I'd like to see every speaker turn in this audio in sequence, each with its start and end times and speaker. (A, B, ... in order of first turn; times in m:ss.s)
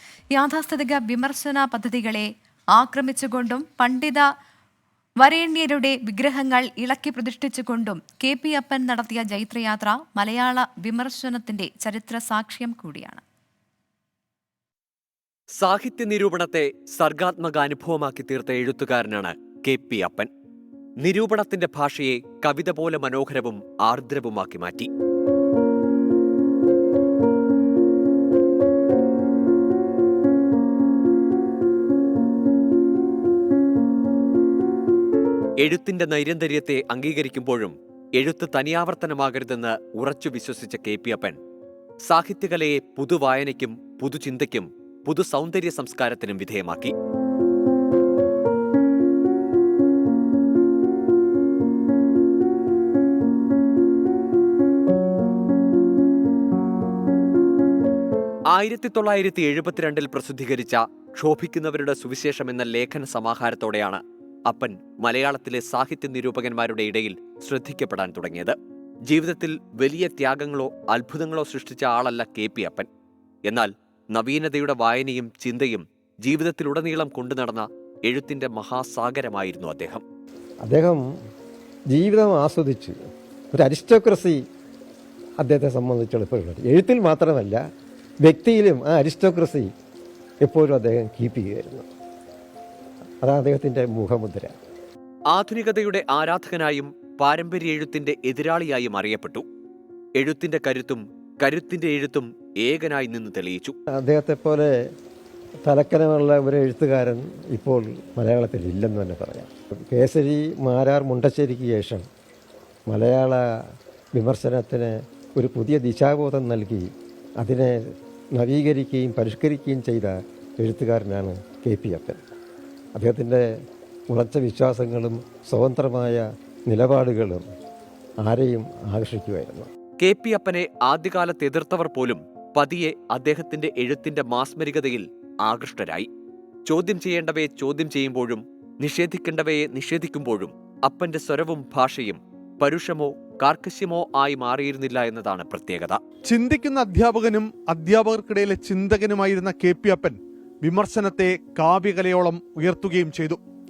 0:00.3-0:04.2 A
0:05.2-0:13.2 A
0:15.6-0:20.3 B
0:21.0-0:24.9 B
0:35.6-0:41.4 B
0:42.0-0:46.9 B
0:58.5-1:08.5 B
1:09.1-1:12.9 B
1:13.4-1:20.0 B
1:20.6-1:21.0 C
1:21.9-1:23.0 C
1:23.5-1:24.4 C
1:25.4-1:27.6 C
1:28.2-1:29.7 C
1:30.4-1:31.9 C
1:33.2-1:34.5 C
1:35.3-1:39.4 B
1:40.2-1:43.7 B
1:44.0-1:44.7 C
1:45.6-1:52.0 C
1:52.9-1:53.6 C
1:54.1-2:02.2 C
2:03.0-2:03.4 C
2:04.1-2:07.4 C
2:08.2-2:09.7 C
2:10.0-2:16.1 B
2:16.7-2:26.0 B
2:26.3-2:33.4 D